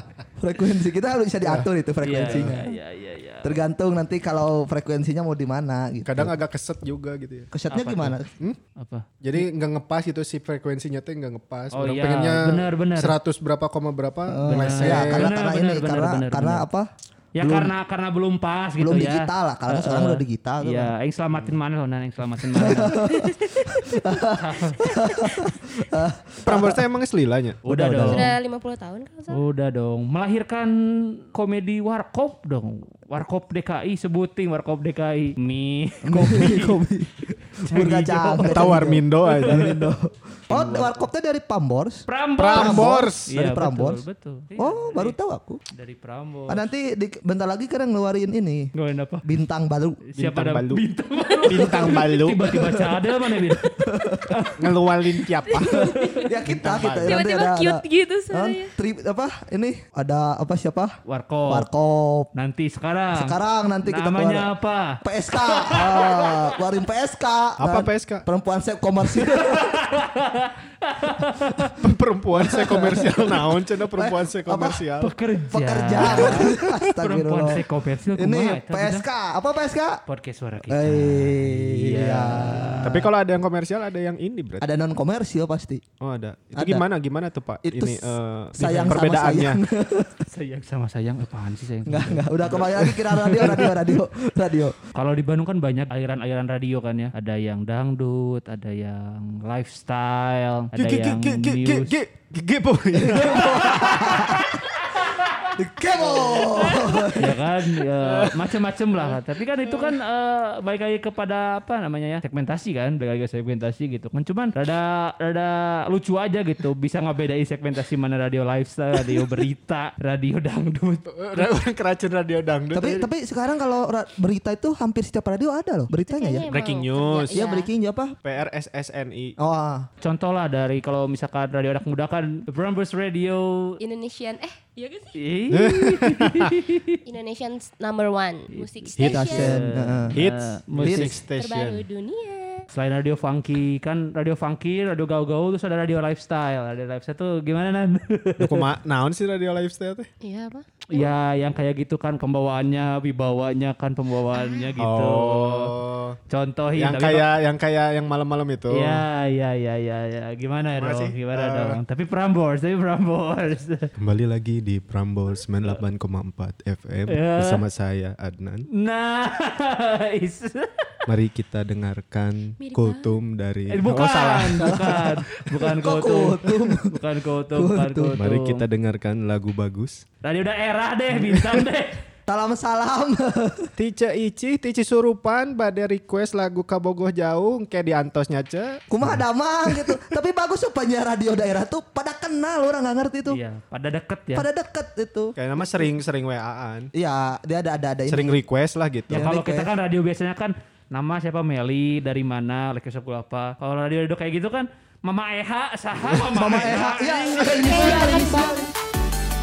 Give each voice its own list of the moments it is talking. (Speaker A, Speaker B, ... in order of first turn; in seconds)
Speaker A: 0.4-2.7, 3.4-6.3, 7.5-8.3, 14.3-17.8, 18.8-20.9, 22.5-26.8, 27.7-28.3, 36.0-44.0, 44.6-45.6, 46.5-48.7, 49.2-50.0, 51.8-53.1, 53.8-54.4, 56.2-60.9, 61.5-62.3, 63.2-64.5, 65.0-69.8, 72.3-73.3, 73.9-74.8, 75.5-80.0, 80.7-83.0, 84.6-85.8, 86.5-86.8, 87.6-90.2, 91.9-94.8, 102.9-104.5, 105.5-107.4, 122.7-126.5, 127.3-128.2, 129.4-129.9, 139.0-140.2, 140.8-141.2, 174.6-176.9, 177.5-178.2, 182.3-183.7, 188.9-193.4, 194.3-195.9, 196.9-198.4, 199.1-199.7, 206.3-208.7
Speaker B: 2.0-3.6, 7.7-8.2, 8.8-9.1, 11.7-13.2, 14.4-16.6, 17.4-23.0, 24.3-24.9, 27.6-28.3, 29.3-36.8, 37.5-39.9, 40.5-41.1, 42.1-45.1, 45.7-46.7, 48.7-49.3, 50.0-54.6, 55.5-57.2, 61.0-61.7, 62.3-65.0, 65.6-66.0, 69.1-71.8, 75.0-79.1, 80.0-83.0, 90.2-92.6, 94.9-102.0, 103.7-105.3, 106.1-121.5, 130.0-133.8, 135.1-136.9, 138.5-141.1, 142.7-148.7, 150.9-155.7, 156.3-157.3, 158.7-163.9, 167.1-167.6, 168.7-171.0, 173.7-178.7, 180.2-182.0, 193.3-194.5, 199.1-208.4
Speaker C: 6.0-7.5, 9.2-15.3, 21.3-21.6, 26.4-27.6, 38.5-39.7, 42.4-43.3, 50.1-50.8, 51.5-52.4, 54.6-55.9, 67.6-68.2, 71.8-75.1, 76.0-76.6, 82.8-84.7, 86.0-89.6, 93.3-93.6, 100.7-104.3, 106.0-106.9, 108.0-108.5, 109.7-109.9, 121.1-123.0, 126.5-127.4, 128.2-129.3, 135.5-136.6, 139.0-139.6, 140.1-141.8, 148.4-150.1, 154.8-156.2, 156.8-159.0, 160.7-161.8, 164.0-168.6, 171.1-175.0, 178.2-180.0, 181.2-181.6, 183.8-189.2, 195.3-196.9, 198.1-199.3
Speaker D: 23.0-23.7, 24.9-25.5, 28.1-29.4, 55.5-56.3, 57.0-58.7, 126.0-127.7, 133.8-135.2, 137.0-139.5, 141.3-142.7, 150.2-151.1, 154.3-154.7, 172.6-173.1, 207.6-208.6